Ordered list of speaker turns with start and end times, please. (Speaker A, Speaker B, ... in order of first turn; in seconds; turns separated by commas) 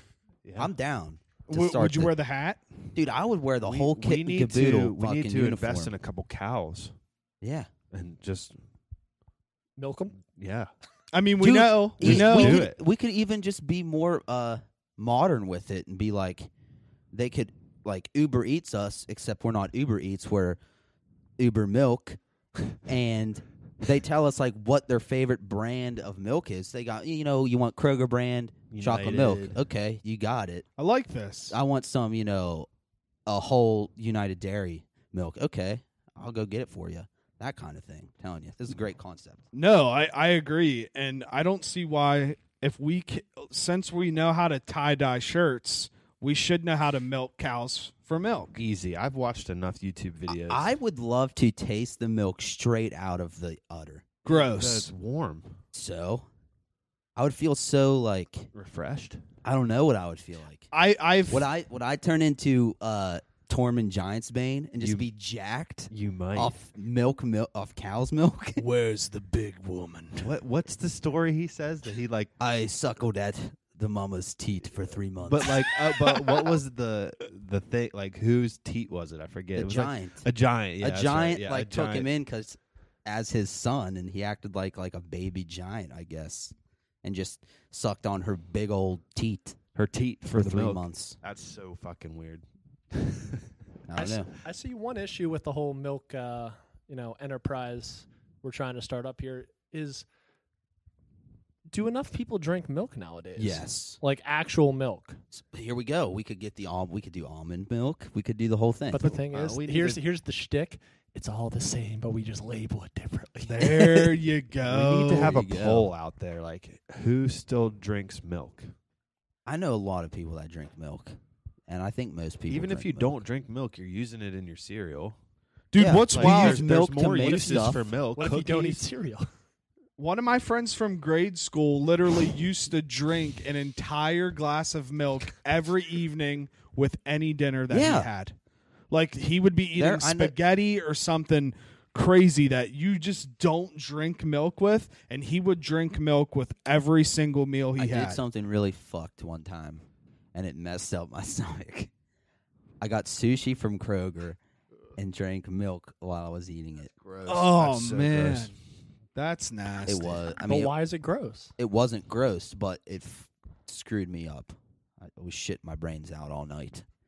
Speaker A: 0.4-0.7, Speaker B: 0.6-2.1, Speaker C: 1.5-2.6, Speaker B: 2.9-5.9, Speaker A: 3.6-6.9, Speaker B: 7.4-7.7, Speaker A: 7.9-8.6, Speaker D: 9.8-10.2, Speaker A: 10.3-10.7, Speaker C: 11.1-12.7, Speaker B: 11.4-16.5, Speaker A: 12.0-12.8, Speaker B: 17.1-20.6, Speaker B: 21.4-22.2, Speaker B: 22.9-30.6, Speaker A: 28.7-29.6, Speaker C: 30.8-31.6, Speaker B: 31.5-32.7, Speaker B: 33.2-39.4, Speaker C: 39.5-48.6, Speaker A: 48.5-50.7, Speaker B: 50.3-54.0, Speaker C: 54.2-54.9, Speaker A: 54.2-55.6, Speaker B: 55.7-56.3, Speaker B: 57.1-58.5, Speaker A: 58.5-59.2, Speaker B: 59.4-60.7, Speaker C: 60.7-61.5, Speaker B: 61.3-68.6, Speaker A: 64.8-65.0, Speaker A: 65.9-66.5, Speaker C: 68.6-70.3, Speaker A: 70.2-72.3, Speaker B: 72.4-75.7, Speaker A: 75.3-82.1, Speaker B: 79.5-80.3, Speaker B: 80.8-89.6, Speaker A: 89.8-93.4, Speaker B: 90.3-91.2, Speaker B: 93.9-94.3, Speaker D: 94.0-100.0, Speaker D: 101.7-105.2, Speaker B: 103.3-104.0, Speaker B: 105.3-109.2, Speaker D: 108.9-114.0, Speaker A: 109.3-110.0, Speaker C: 113.5-115.4, Speaker A: 114.7-118.7, Speaker B: 115.1-115.9, Speaker B: 119.5-123.2, Speaker A: 122.5-125.2, Speaker C: 125.7-127.1, Speaker B: 125.8-127.9, Speaker A: 126.1-128.8, Speaker D: 127.2-127.6, Speaker D: 128.1-129.3, Speaker C: 130.0-138.3, Speaker B: 137.7-138.1, Speaker C: 138.9-148.2, Speaker B: 139.8-140.3, Speaker B: 147.8-151.9, Speaker B: 152.8-154.4, Speaker B: 154.9-156.9, Speaker A: 157.0-158.5, Speaker C: 157.2-158.5, Speaker C: 159.1-160.2, Speaker B: 159.8-160.7, Speaker D: 160.4-161.5, Speaker B: 161.6-166.8